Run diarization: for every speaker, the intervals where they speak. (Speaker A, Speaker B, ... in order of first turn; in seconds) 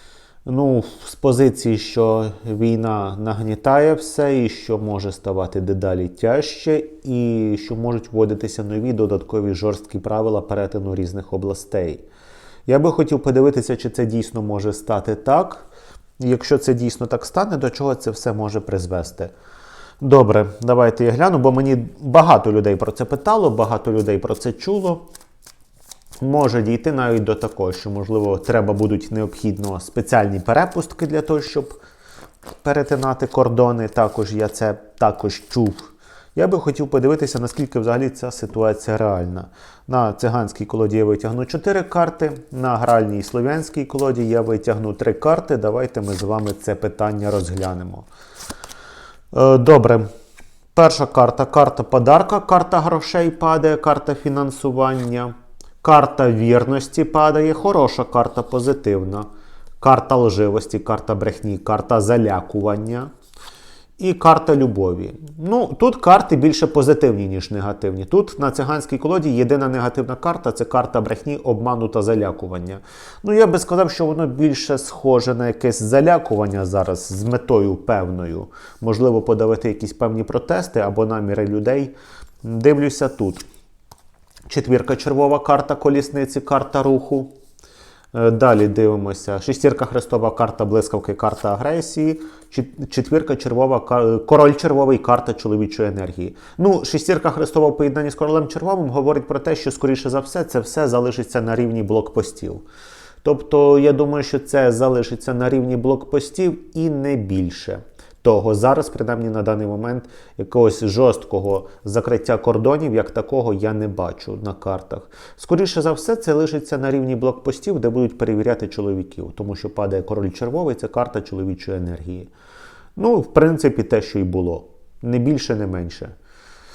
Speaker A: 0.5-12.0, 12.7-15.7, 16.2-19.3, 20.0-25.1, 26.2-31.7, 32.6-48.1, 49.3-50.1, 50.7-59.3, 59.8-63.1, 64.0-83.4, 84.5-87.3, 88.1-102.6, 103.2-122.3, 123.0-126.1